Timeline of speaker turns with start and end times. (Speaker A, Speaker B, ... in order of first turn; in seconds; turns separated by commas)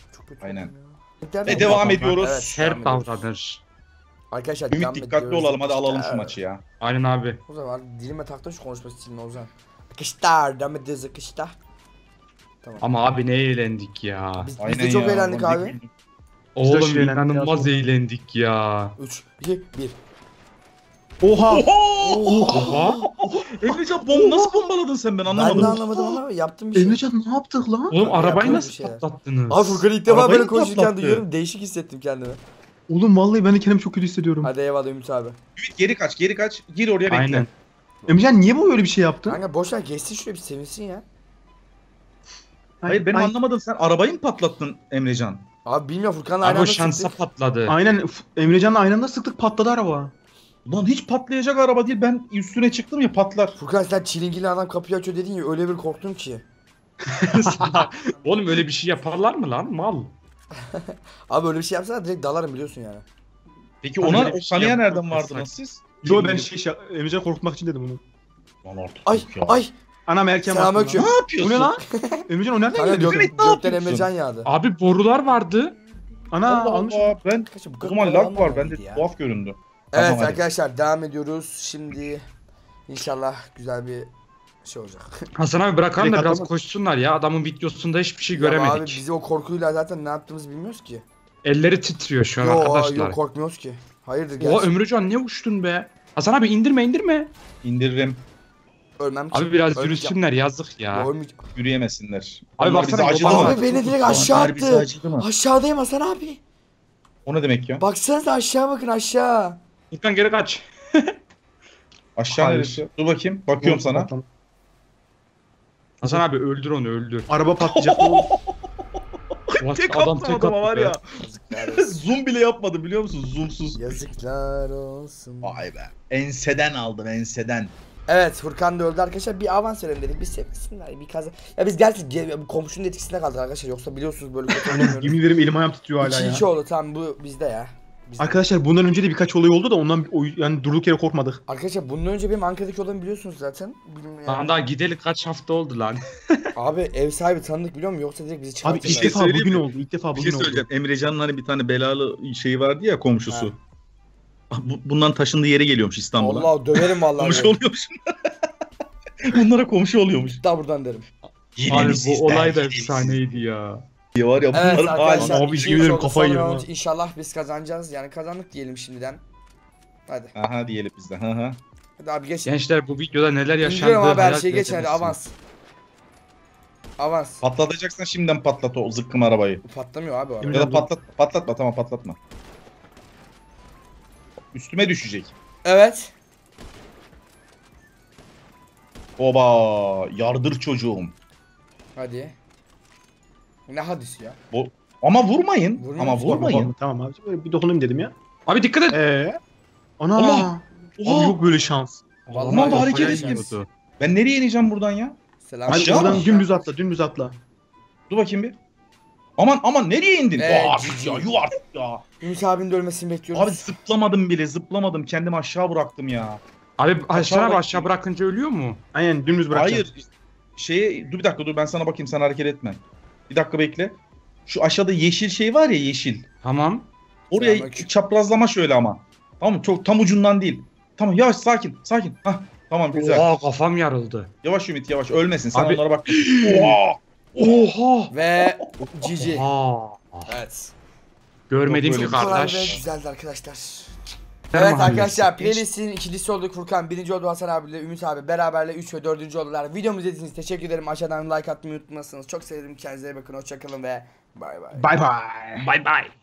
Speaker A: 0.1-3.2, Speaker B: 0.4-0.7, Speaker B: 1.5-2.6, Speaker C: 1.5-3.6, Speaker A: 4.3-6.4, Speaker B: 4.7-6.6, Speaker C: 6.8-7.4, Speaker A: 7.5-11.6, Speaker A: 12.6-12.9, Speaker C: 12.8-14.5, Speaker A: 14.4-15.8, Speaker B: 14.6-15.9, Speaker C: 16.6-18.9, Speaker D: 16.6-17.9, Speaker A: 19.0-20.0, Speaker D: 21.2-21.7, Speaker B: 21.5-25.8, Speaker A: 22.0-23.1, Speaker D: 22.2-22.7, Speaker C: 22.5-23.0, Speaker D: 24.1-24.5, Speaker D: 25.3-26.1, Speaker A: 25.4-27.0, Speaker D: 26.8-28.0, Speaker C: 27.9-29.8, Speaker A: 28.0-32.4, Speaker B: 30.1-31.2, Speaker D: 32.9-34.5, Speaker A: 34.4-35.4, Speaker B: 35.6-37.5, Speaker C: 37.1-37.5, Speaker D: 38.1-39.4, Speaker A: 39.3-41.0, Speaker D: 42.8-43.3, Speaker B: 42.9-45.5, Speaker A: 45.6-47.1, Speaker C: 46.4-47.8, Speaker D: 47.7-50.1, Speaker B: 50.7-53.5, Speaker A: 53.6-56.4, Speaker C: 57.1-60.1, Speaker D: 57.4-57.8, Speaker A: 60.6-63.0, Speaker B: 63.8-66.5, Speaker D: 64.0-64.8, Speaker C: 64.6-65.5, Speaker D: 66.0-68.0, Speaker B: 68.7-69.6, Speaker A: 69.0-69.7, Speaker D: 70.1-73.3, Speaker A: 70.5-71.2, Speaker B: 71.0-71.7, Speaker A: 72.0-74.5, Speaker B: 73.3-74.1, Speaker C: 74.5-75.8, Speaker D: 76.3-77.1, Speaker B: 76.5-80.4, Speaker A: 77.5-79.1, Speaker A: 79.9-82.2, Speaker A: 82.9-84.1, Speaker A: 84.6-85.2, Speaker C: 85.4-89.0, Speaker D: 86.0-86.5, Speaker A: 88.3-91.0, Speaker C: 91.4-93.2, Speaker A: 92.4-94.7, Speaker C: 94.4-97.3, Speaker B: 97.6-98.2, Speaker A: 99.0-100.2, Speaker C: 99.3-101.1, Speaker A: 100.9-101.4, Speaker B: 101.5-105.3, Speaker C: 102.6-104.5, Speaker A: 103.2-106.4, Speaker B: 107.3-107.8, Speaker A: 107.8-109.6, Speaker C: 109.9-111.1, Speaker B: 112.2-114.1, Speaker D: 112.3-112.8, Speaker D: 113.6-114.3, Speaker C: 116.0-117.3, Speaker D: 117.3-118.3, Speaker B: 117.6-118.5, Speaker B: 119.5-121.0, Speaker C: 119.6-121.0, Speaker A: 121.2-122.0, Speaker B: 121.6-123.8, Speaker A: 123.8-125.7, Speaker B: 125.4-127.7, Speaker A: 128.1-135.2, Speaker D: 134.6-136.5, Speaker A: 136.0-138.4, Speaker D: 138.2-141.4, Speaker A: 141.5-144.5, Speaker C: 144.3-146.4, Speaker A: 146.6-149.2, Speaker D: 148.6-150.7, Speaker B: 148.8-153.6, Speaker B: 154.5-158.1, Speaker A: 156.2-157.6, Speaker B: 159.2-160.4, Speaker A: 160.4-161.1, Speaker B: 161.6-163.4, Speaker C: 161.7-163.8, Speaker B: 164.2-165.9, Speaker A: 164.5-169.2, Speaker D: 165.1-166.7, Speaker A: 170.1-170.3, Speaker B: 170.3-171.6, Speaker A: 172.0-172.5, Speaker C: 172.5-175.2, Speaker A: 173.6-175.3, Speaker A: 177.0-177.4, Speaker B: 177.4-179.6, Speaker A: 179.7-180.6, Speaker D: 180.4-180.9, Speaker B: 180.4-182.2, Speaker B: 184.5-185.3, Speaker A: 185.7-186.1, Speaker B: 189.2-191.1, Speaker A: 192.0-192.4, Speaker A: 193.7-194.4, Speaker B: 194.5-196.7, Speaker A: 195.8-196.3, Speaker D: 196.2-198.1, Speaker C: 198.5-199.0, Speaker D: 198.9-199.4, Speaker D: 200.0-202.0, Speaker B: 200.2-201.4, Speaker C: 202.3-203.7, Speaker A: 202.3-203.5, Speaker B: 202.5-205.2, Speaker D: 202.6-202.9, Speaker A: 205.4-206.5, Speaker D: 205.7-207.4, Speaker B: 205.7-206.3, Speaker B: 208.1-208.6, Speaker B: 209.4-212.0, Speaker A: 210.4-211.3, Speaker A: 212.2-213.7, Speaker B: 213.3-216.4, Speaker C: 216.8-218.8, Speaker B: 217.1-217.9, Speaker D: 218.9-219.9, Speaker B: 219.5-220.1, Speaker B: 220.6-226.3, Speaker C: 226.4-226.9, Speaker B: 227.3-233.3, Speaker A: 227.3-227.9, Speaker C: 232.9-234.3, Speaker B: 234.4-237.7, Speaker C: 235.5-236.8, Speaker C: 237.4-238.1, Speaker A: 238.1-239.4, Speaker C: 239.2-240.3, Speaker A: 240.3-240.7, Speaker C: 241.5-242.8, Speaker B: 241.7-242.8, Speaker A: 241.9-243.9, Speaker C: 244.5-245.6, Speaker A: 244.5-254.9, Speaker D: 254.8-255.9